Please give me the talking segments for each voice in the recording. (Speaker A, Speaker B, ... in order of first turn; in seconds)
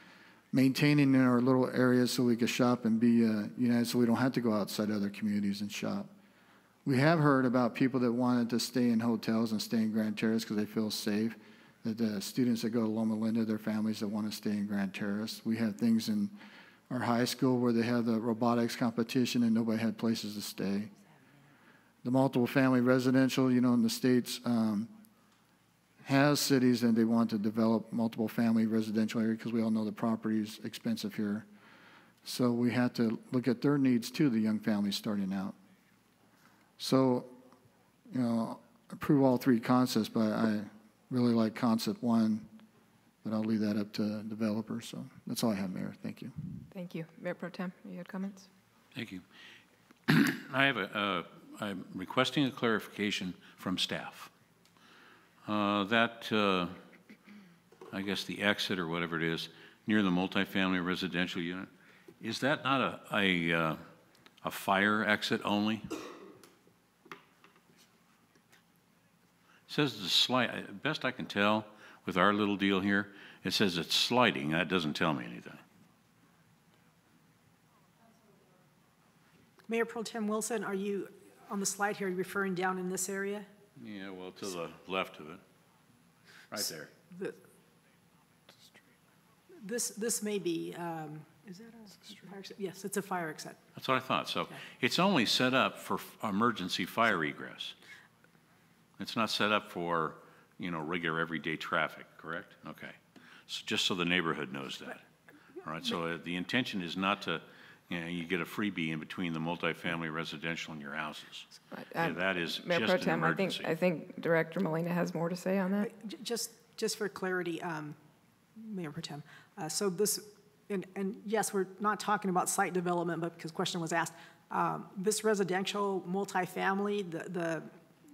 Speaker A: 0.5-6.1, 6.8-16.4, 16.9-20.9, 22.0-24.9, 26.0-31.5, 32.2-35.6, 36.8-37.4, 38.1-42.5, 43.2-46.6
Speaker B: 46.7-48.5, 111.7-115.9
Speaker C: 48.9-49.2, 50.1-54.3, 55.5-56.8, 57.9-61.7, 62.2-63.8, 64.4-66.0, 69.7-75.6, 83.8-85.4, 86.5-86.9, 93.8-97.8, 99.0-105.0, 105.6-111.5, 112.0-113.7
Speaker D: 79.7-83.5, 87.1-87.4, 89.6-93.6, 115.8-118.0, 118.6-127.7